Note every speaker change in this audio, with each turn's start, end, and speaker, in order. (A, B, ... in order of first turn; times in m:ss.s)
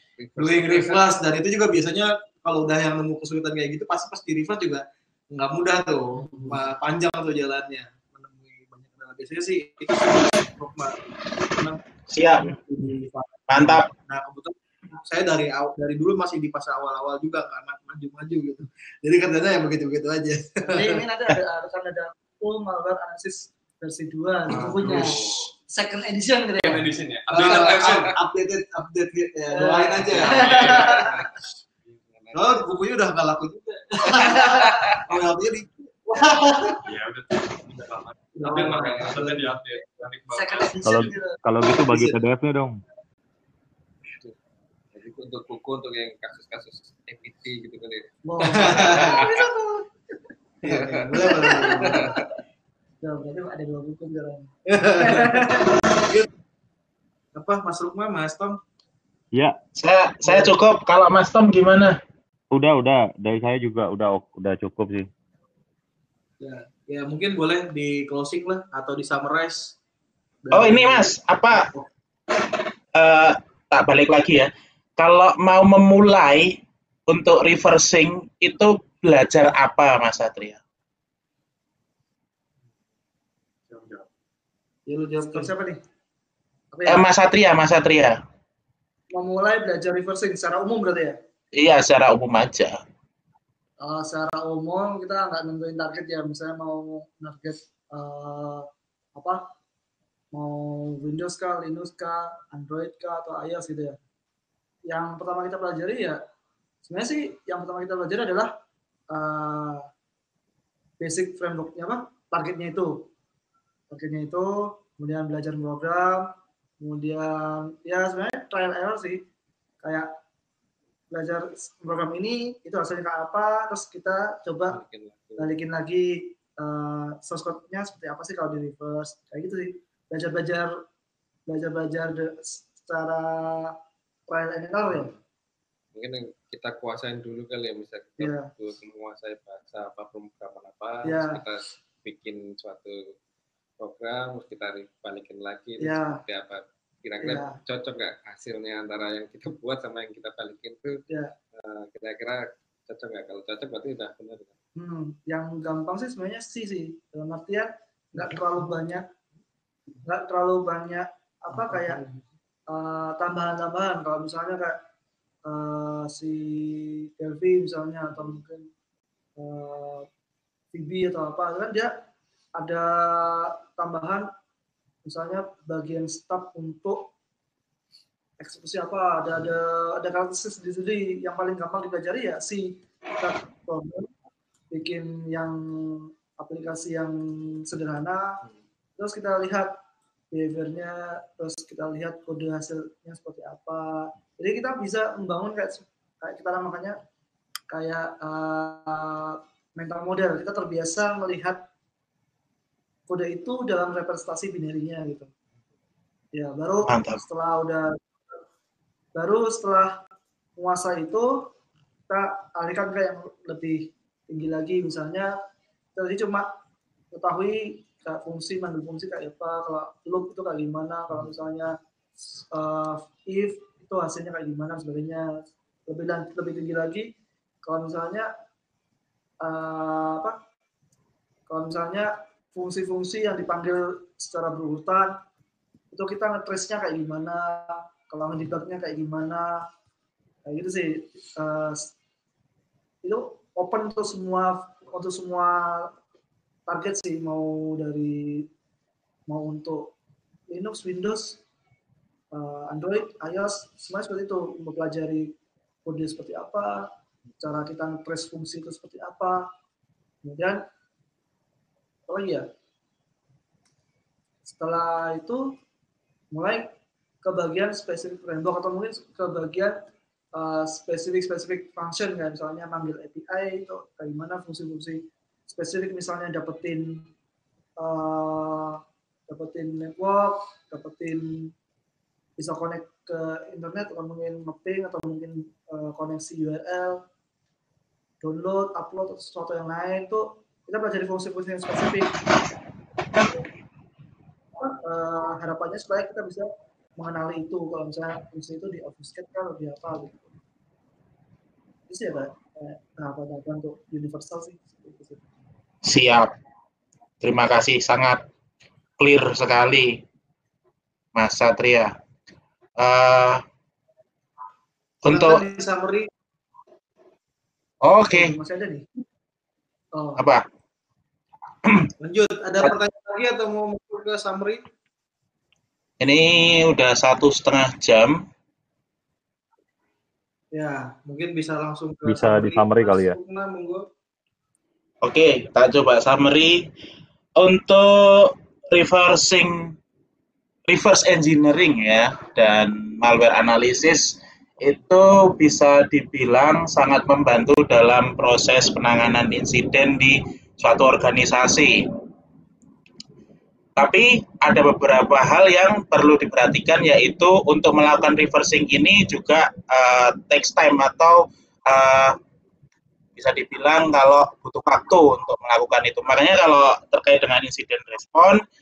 0:00.2-0:01.1 A
0:00.4-0:11.8 B
0:12.1-0:12.5 C
0:12.4-0:21.0 B
0:13.5-0:13.9 C
0:20.6-0:25.1 D
0:24.5-0:25.2 B
0:24.5-0:25.4 A
0:24.7-0:25.2 E
0:25.7-0:26.8 D
0:26.6-0:28.1 E
0:27.3-0:30.7 B
0:29.5-0:31.1 D
0:30.1-0:31.3 A
0:30.1-0:31.1 E
0:31.8-0:32.7 A
0:32.3-0:36.8 B
0:34.1-0:35.0 A
0:36.8-0:41.0 E
0:38.3-0:39.4 B
0:38.4-0:39.4 D
0:40.3-0:41.4 D
0:40.8-0:42.8 F
0:41.8-0:42.2 B
0:44.9-0:49.4 A
0:48.2-0:49.8 D
0:48.4-0:49.4 B
0:50.6-0:52.1 B
0:50.7-0:52.3 A
0:51.4-0:52.2 D
0:53.0-0:55.8 D
0:54.7-0:56.3 B
0:57.4-0:58.6 B
0:59.8-1:02.0 C
1:02.5-1:05.1 F
1:06.4-1:09.7 B
1:10.4-1:11.9 B
1:10.5-1:11.7 C
1:12.9-1:20.6 C
1:23.7-1:24.0 E
1:24.9-1:25.8 D
1:25.1-1:25.5 B
1:26.7-1:27.1 D
1:26.8-1:28.2 C
1:29.1-1:31.2 D
1:31.6-1:32.8 C
1:33.8-1:39.4 D
1:40.3-1:44.0 D
1:44.9-1:46.2 D
1:46.8-1:48.5 D
1:49.1-1:49.9 D
1:51.0-1:53.1 D
1:53.9-1:59.2 D
1:59.8-2:00.1 D
2:01.1-2:04.8 D
2:04.7-2:05.6 A
2:05.4-2:10.7 D
2:11.5-2:13.7 D
2:14.3-2:15.1 D
2:14.9-2:15.2 A
2:15.9-2:23.0 A
2:18.2-2:18.5 D
2:21.0-2:21.4 D
2:23.8-2:31.0 A
2:25.8-2:26.2 D
2:27.2-2:27.6 D
2:31.5-2:34.5 A
2:34.8-2:39.1 D
2:40.0-2:42.0 D
2:41.7-2:42.1 B
2:42.7-2:44.8 D
2:45.4-2:48.7 D
2:49.4-2:50.1 D
2:50.7-2:51.9 D
2:52.6-2:54.3 D
2:55.0-2:57.1 D
2:58.4-3:04.1 D
3:04.7-3:08.4 D
3:09.0-3:09.8 D
3:10.3-3:17.0 D
3:17.7-3:21.6 D
3:23.1-3:25.3 D
3:26.3-3:28.0 D
3:26.8-3:27.2 C
3:29.1-3:30.0 D
3:30.6-3:31.5 D
3:32.1-3:35.3 D
3:36.0-3:36.5 D
3:37.1-3:41.8 D
3:42.4-3:45.3 D
3:45.9-3:47.1 D
3:47.6-3:48.3 D
3:49.4-3:50.4 D
3:51.5-3:55.2 D
3:55.9-3:59.6 D
4:00.4-4:01.9 D
4:03.0-4:05.9 D
4:06.7-4:08.5 D
4:09.3-4:09.9 D
4:10.5-4:11.4 D
4:12.3-4:15.3 D
4:15.8-4:16.9 D
4:17.4-4:19.4 D
4:20.2-4:20.6 D
4:22.1-4:22.5 D
4:24.5-4:25.5 D
4:26.3-4:26.7 D
4:27.2-4:29.8 D
4:30.4-4:37.1 D
4:37.8-4:41.5 D
4:42.4-4:47.0 D
4:48.2-4:52.2 D
4:54.6-5:00.3 D
5:01.9-5:05.2 D
5:05.8-5:06.3 C
5:07.2-5:08.2 C
5:09.0-5:10.0 C
5:11.1-5:11.9 C
5:12.8-5:13.4 C
5:15.0-5:15.4 C
5:15.1-5:16.1 B
5:17.8-5:18.3 C
5:18.1-5:18.9 D
5:19.9-5:20.2 D
5:20.2-5:20.4 C
5:21.6-5:21.9 C
5:22.0-5:24.6 B
5:26.0-5:28.2 C
5:30.5-5:33.8 B
5:32.0-5:33.2 F
5:35.0-5:36.7 C
5:37.4-5:39.7 C
5:40.7-5:51.9 C
5:53.8-6:02.2 C
6:03.2-6:08.4 C